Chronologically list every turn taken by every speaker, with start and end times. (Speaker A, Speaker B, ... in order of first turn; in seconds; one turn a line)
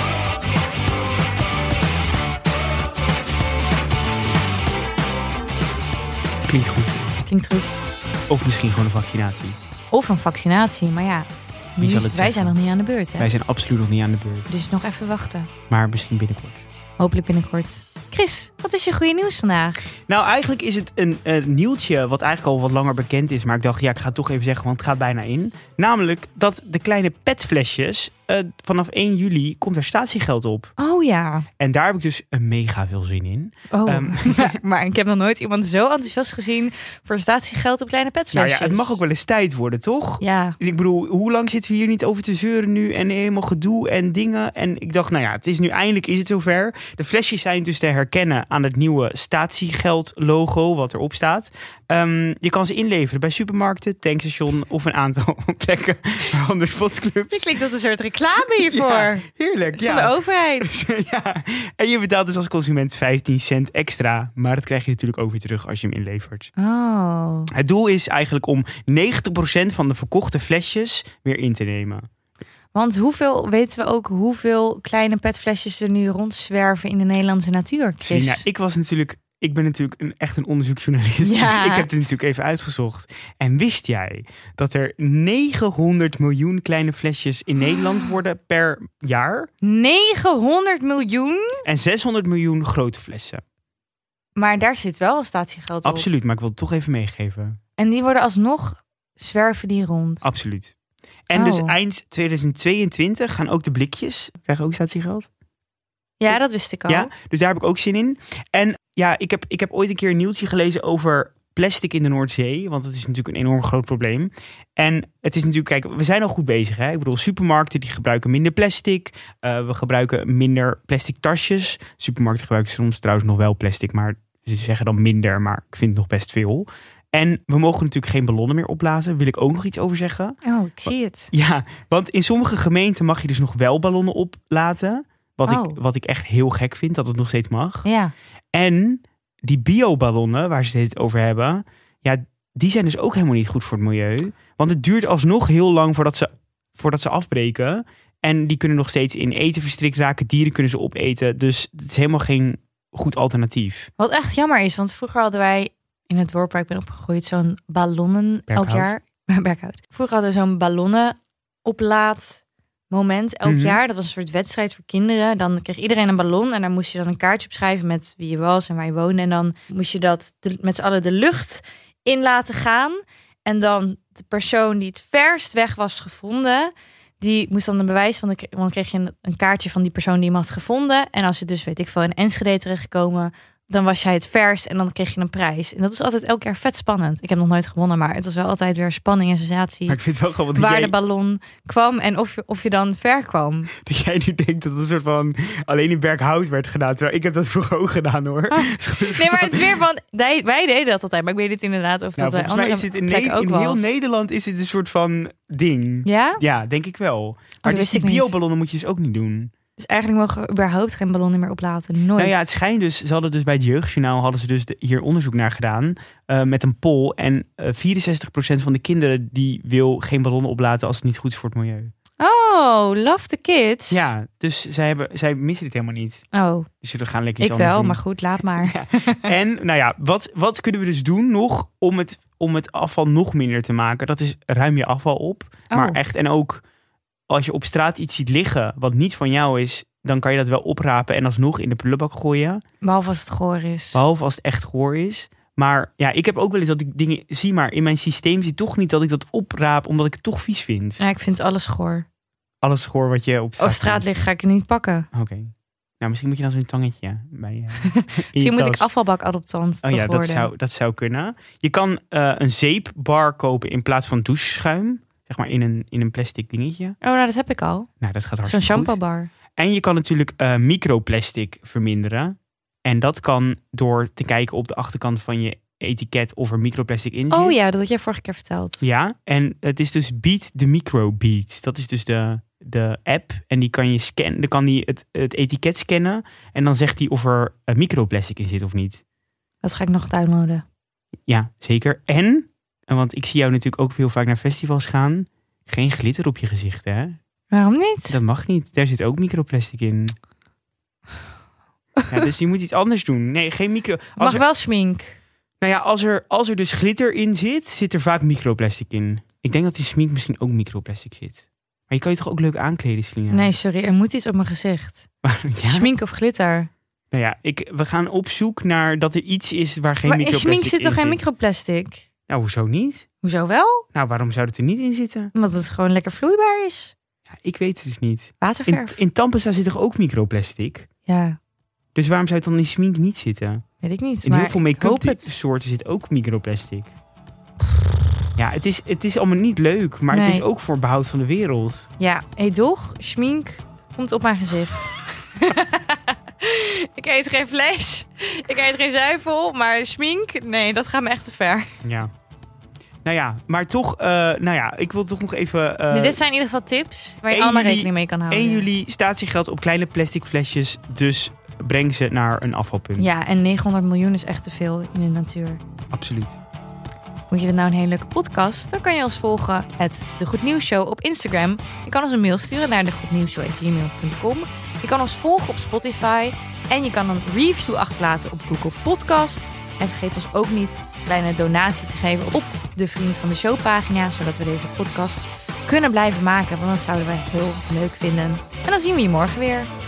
Speaker A: 6.5-7.2
Speaker B: 7.3-7.8
Speaker A: 8.3-9.6
Speaker B: 9.9-13.3
Speaker A: 11.8-12.6
Speaker A: 13.2-14.5
Speaker B: 14.5-15.5
Speaker A: 15.7-16.6
Speaker B: 17.0-19.8
Speaker A: 20.1-30.7
Speaker B: 30.8-31.4
Speaker A: 31.6-34.6
Speaker B: 33.7-39.0
Speaker A: 38.3-57.5
Speaker B: 40.2-40.5
Speaker B: 57.3-60.7
Speaker A: 58.5-66.5
Speaker B: 66.6-67.5
Speaker A: 67.5-72.0
Speaker B: 72.7-78.4
Speaker A: 78.0-89.5
Speaker B: 81.2-81.9
Speaker B: 89.6-91.6
Speaker A: 91.6-93.4
Speaker B: 94.3-96.1
Speaker A: 95.8-97.6
Speaker B: 97.8-100.3
Speaker A: 100.2-100.7
Speaker A: 101.3-105.3
Speaker B: 101.3-101.7
Speaker B: 106.2-107.1
Speaker A: 106.3-137.8
Speaker B: 130.4-131.3
Speaker B: 135.5-135.8
Speaker B: 137.8-138.1
Speaker A: 138.5-153.9
Speaker B: 154.0-190.0
Speaker A: 158.5-158.9
Speaker A: 163.4-163.8
Speaker A: 189.9-190.9
Speaker B: 190.5-193.7
Speaker A: 193.7-199.8
Speaker B: 198.5-203.9
Speaker A: 202.2-209.5
Speaker B: 206.0-206.4
Speaker B: 207.6-208.3
Speaker B: 209.8-212.4
Speaker A: 212.2-221.9
Speaker B: 222.2-224.1
Speaker A: 223.9-226.2
Speaker B: 226.3-226.7
Speaker A: 226.8-236.6
Speaker B: 227.4-229.3
Speaker B: 235.7-236.0
Speaker A: 237.3-242.6
Speaker B: 242.8-244.0
Speaker A: 243.9-251.0
Speaker B: 251.0-252.1
Speaker A: 252.6-254.1
Speaker B: 253.6-255.1
Speaker A: 255.1-258.9
Speaker B: 257.8-260.5
Speaker A: 259.8-266.9
Speaker B: 267.0-267.9
Speaker A: 268.0-269.0
Speaker B: 268.4-269.3
Speaker A: 269.6-277.6
Speaker B: 277.3-278.8
Speaker A: 278.8-289.0
Speaker B: 289.6-290.6
Speaker A: 291.3-297.2
Speaker B: 297.5-298.2
Speaker A: 298.1-300.1
Speaker A: 302.1-304.4
Speaker B: 304.2-305.2
Speaker A: 305.6-313.5
Speaker B: 313.3-315.1
Speaker A: 315.2-315.9
Speaker B: 315.6-316.7
Speaker A: 317.1-321.2
Speaker B: 320.0-322.0
Speaker A: 322.3-323.1
Speaker B: 323.2-323.8
Speaker A: 323.9-325.3
Speaker B: 325.3-326.9
Speaker A: 327.4-330.9
Speaker B: 328.4-329.0
Speaker B: 331.0-331.4
Speaker A: 331.9-333.6
Speaker B: 333.8-335.3
Speaker A: 334.2-336.9
Speaker A: 338.4-341.9
Speaker B: 340.1-340.4
Speaker B: 342.0-351.7
Speaker A: 351.8-352.1
Speaker A: 353.0-356.2
Speaker B: 355.9-358.7
Speaker A: 357.3-363.1
Speaker B: 363.0-365.6
Speaker A: 365.9-366.4
Speaker B: 367.3-389.7